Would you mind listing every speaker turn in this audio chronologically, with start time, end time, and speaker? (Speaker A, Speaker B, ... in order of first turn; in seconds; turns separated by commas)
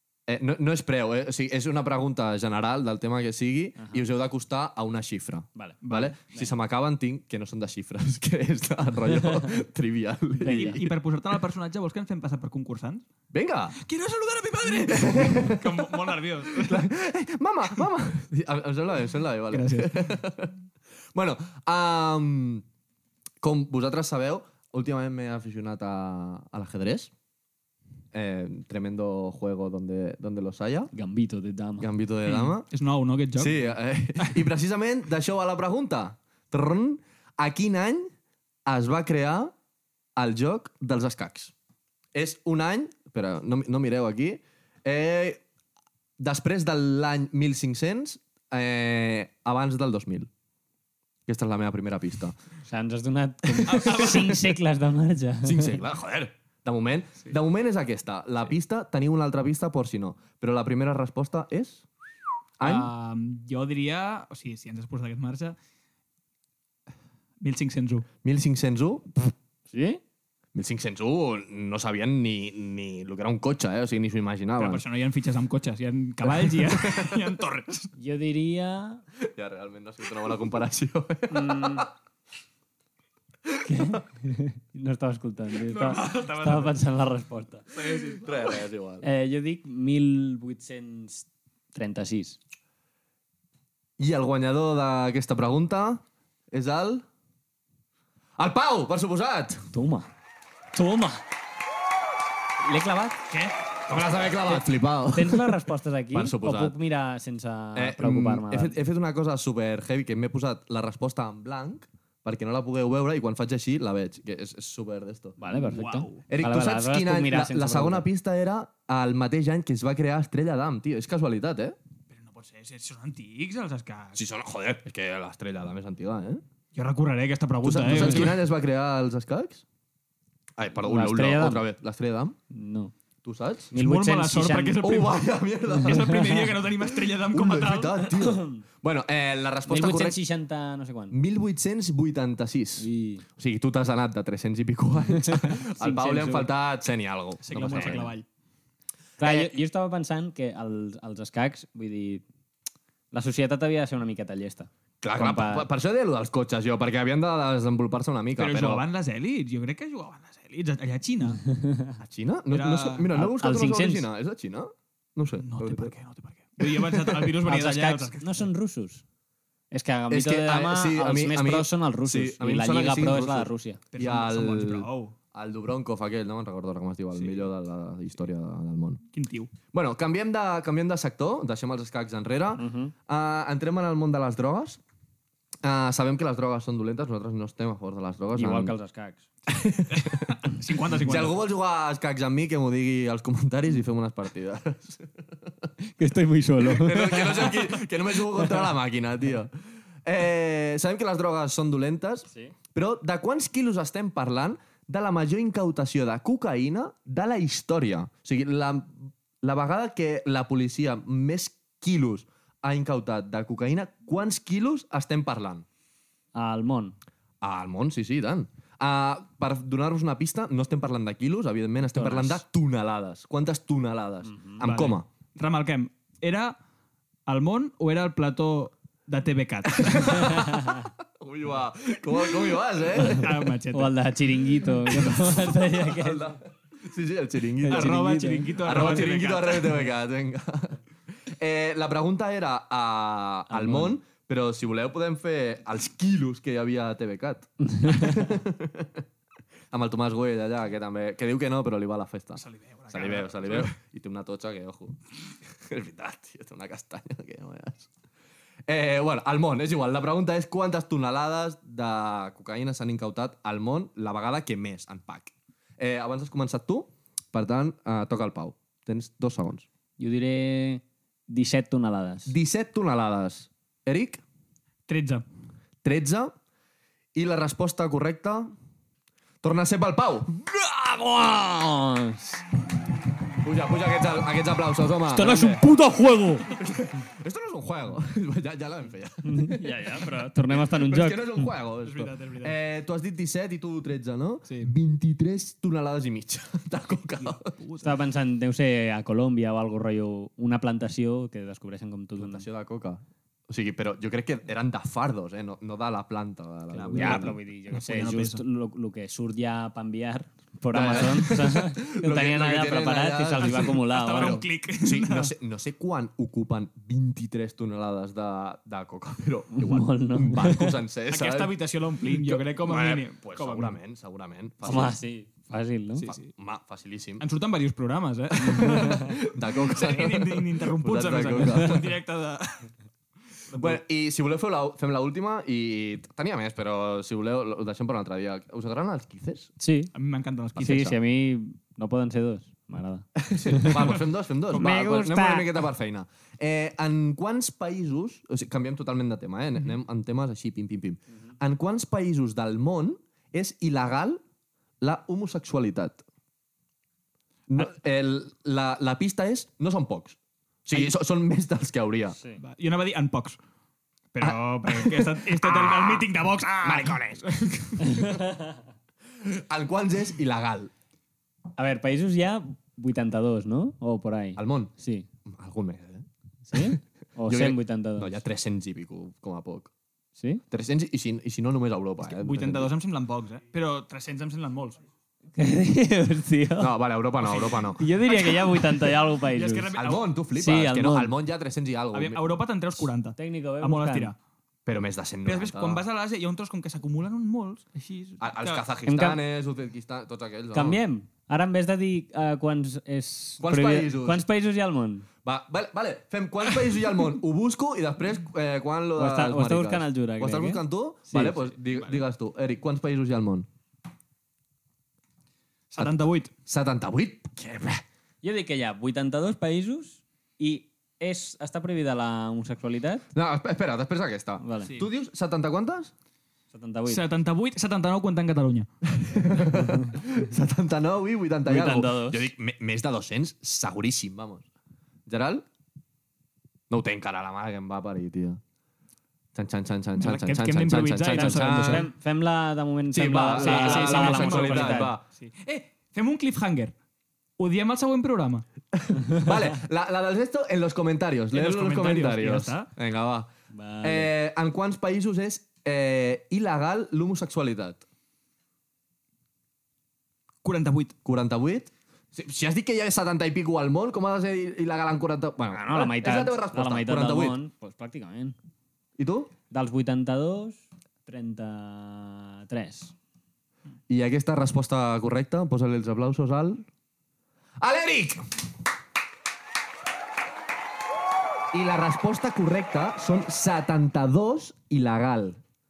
Speaker A: 0.3-10.9, Speaker B: 3.8-4.0, Speaker C: 5.8-6.1, Speaker B: 10.4-10.8, Speaker C: 10.5-13.0, Speaker A: 13.3-13.8, Speaker C: 13.8-16.9, Speaker A: 14.8-20.5, Speaker C: 19.5-20.2, Speaker A: 21.1-22.6, Speaker A: 23.4-27.1, Speaker A: 28.1-30.9, Speaker B: 30.9-31.9, Speaker A: 31.8-32.7, Speaker C: 32.2-33.6, Speaker A: 33.4-38.1, Speaker C: 34.2-34.4, Speaker A: 38.6-39.5, Speaker A: 40.1-41.5, Speaker A: 42.1-45.4, Speaker A: 46.2-50.3, Speaker A: 51.3-52.4, Speaker B: 52.6-55.7, Speaker C: 53.6-54.4, Speaker A: 55.4-61.9, Speaker A: 62.6-62.9, Speaker C: 62.6-65.5, Speaker C: 67.4-68.1, Speaker A: 68.2-69.3, Speaker B: 69.7-70.0, Speaker A: 70.5-74.8, Speaker C: 74.6-77.9, Speaker A: 76.3-77.2, Speaker B: 78.0-79.0, Speaker A: 79.2-81.9, Speaker B: 81.3-81.9, Speaker B: 83.6-87.6, Speaker C: 85.6-86.8, Speaker C: 87.7-88.3, Speaker A: 87.8-89.0, Speaker B: 89.0-92.4, Speaker A: 94.0-97.0, Speaker A: 98.4-99.7, Speaker B: 99.7-100.1, Speaker B: 100.7-101.2, Speaker B: 102.6-103.2, Speaker A: 103.9-106.8, Speaker B: 104.5-108.8, Speaker A: 107.7-115.4, Speaker B: 115.4-118.0, Speaker C: 115.5-116.2, Speaker A: 116.3-121.8, Speaker C: 122.1-124.2, Speaker A: 124.1-126.4, Speaker C: 126.7-128.4, Speaker A: 127.6-129.6, Speaker A: 130.6-132.3, Speaker B: 130.8-131.7, Speaker B: 132.5-132.9, Speaker A: 133.2-133.7, Speaker B: 133.7-134.8, Speaker C: 133.7-138.1, Speaker A: 134.8-140.2, Speaker B: 138.2-138.6, Speaker B: 139.7-141.2, Speaker A: 141.1-148.1, Speaker B: 142.8-143.2, Speaker C: 145.8-146.5, Speaker C: 147.4-148.2, Speaker B: 147.5-148.1, Speaker A: 149.2-149.5, Speaker B: 149.2-152.2, Speaker B: 153.1-155.7, Speaker A: 155.0-158.8, Speaker C: 158.3-161.4, Speaker B: 161.5-161.9, Speaker A: 162.0-165.9, Speaker C: 162.5-163.1, Speaker B: 163.1-164.1, Speaker C: 165.4-168.3, Speaker A: 166.6-167.3, Speaker B: 167.4-169.0, Speaker B: 169.7-173.8, Speaker A: 170.1-179.0, Speaker C: 173.9-175.1, Speaker C: 177.1-177.4, Speaker C: 179.1-179.5, Speaker A: 179.7-184.8, Speaker B: 182.6-182.9, Speaker A: 185.6-188.7, Speaker B: 188.3-189.2, Speaker A: 189.5-190.4, Speaker C: 190.0-191.4, Speaker A: 191.0-195.5, Speaker B: 195.8-197.7, Speaker A: 196.6-199.5, Speaker A: 200.0-215.6, Speaker B: 216.3-216.9, Speaker A: 217.4-225.1, Speaker B: 221.9-222.4, Speaker B: 224.3-224.6, Speaker C: 224.6-226.6, Speaker C: 227.3-230.5, Speaker A: 229.8-230.5, Speaker A: 231.2-233.5, Speaker C: 233.0-234.0, Speaker B: 233.7-236.3, Speaker A: 234.9-238.0, Speaker B: 237.6-239.0, Speaker C: 237.7-239.8, Speaker A: 238.6-249.0, Speaker B: 243.5-244.0, Speaker B: 247.8-248.1, Speaker A: 249.7-257.9, Speaker C: 252.4-253.7, Speaker A: 258.7-269.6, Speaker B: 270.0-272.3, Speaker A: 272.3-274.2, Speaker C: 274.9-275.2, Speaker A: 275.8-276.3, Speaker A: 277.1-278.5, Speaker A: 279.4-280.4, Speaker B: 280.4-282.4, Speaker A: 283.4-285.5, Speaker B: 285.1-286.5, Speaker C: 285.2-285.6, Speaker A: 286.5-297.5, Speaker B: 289.2-291.5, Speaker C: 291.8-292.6, Speaker C: 294.5-294.7, Speaker C: 297.2-297.9, Speaker B: 297.8-302.4, Speaker A: 302.2-307.4, Speaker C: 306.7-308.4, Speaker B: 306.9-314.4, Speaker A: 310.7-321.5, Speaker C: 313.4-315.3, Speaker B: 319.5-320.8, Speaker C: 321.1-323.8, Speaker A: 322.0-325.0, Speaker B: 324.6-326.1, Speaker C: 326.0-326.3, Speaker A: 326.1-327.2, Speaker C: 327.2-332.7, Speaker A: 328.4-331.9, Speaker C: 333.5-333.8, Speaker A: 333.5-339.5, Speaker B: 339.6-339.9, Speaker C: 339.9-341.0, Speaker B: 340.6-343.9, Speaker A: 343.2-354.2, Speaker C: 343.5-344.0, Speaker B: 344.5-345.6, Speaker A: 354.8-356.0, Speaker A: 357.5-362.1, Speaker B: 362.1-362.4, Speaker C: 362.4-363.4, Speaker C: 364.1-368.1, Speaker A: 364.2-366.0, Speaker A: 366.6-367.2, Speaker B: 367.8-368.5, Speaker A: 369.2-370.7, Speaker B: 371.6-375.1, Speaker A: 374.4-374.7, Speaker A: 375.2-379.7, Speaker B: 376.5-378.2, Speaker B: 380.2-380.4, Speaker A: 380.5-382.7, Speaker C: 382.0-384.8, Speaker B: 385.4-386.7, Speaker A: 386.6-387.8, Speaker C: 387.2-390.1, Speaker B: 387.8-389.7, Speaker A: 389.7-392.2, Speaker B: 390.3-391.1, Speaker C: 391.9-394.1, Speaker B: 393.1-394.1, Speaker A: 394.6-395.8, Speaker C: 395.2-398.6, Speaker A: 398.2-400.8, Speaker B: 398.9-399.2, Speaker B: 400.5-405.1, Speaker A: 403.4-404.2, Speaker A: 405.2-413.5, Speaker B: 409.0-411.4, Speaker C: 411.7-412.0, Speaker C: 415.7-416.3, Speaker A: 415.8-417.8, Speaker B: 418.2-423.0, Speaker A: 423.1-425.9, Speaker B: 424.4-424.7, Speaker B: 426.5-427.0, Speaker C: 426.9-428.7, Speaker A: 428.9-434.4, Speaker B: 429.6-429.9, Speaker B: 431.4-432.3, Speaker A: 435.1-435.4, Speaker A: 436.7-438.4, Speaker A: 439.3-441.9, Speaker C: 440.0-441.9, Speaker B: 441.3-444.9, Speaker A: 442.9-445.0, Speaker C: 443.3-446.7, Speaker C: 447.4-448.4, Speaker A: 448.8-453.3, Speaker C: 451.3-452.7, Speaker B: 453.5-454.1, Speaker A: 453.8-457.8, Speaker C: 460.4-460.9, Speaker A: 461.0-467.4, Speaker B: 465.5-468.4, Speaker A: 469.0-469.3, Speaker B: 469.5-472.9, Speaker A: 473.9-476.6, Speaker A: 477.6-478.3, Speaker A: 481.5-485.4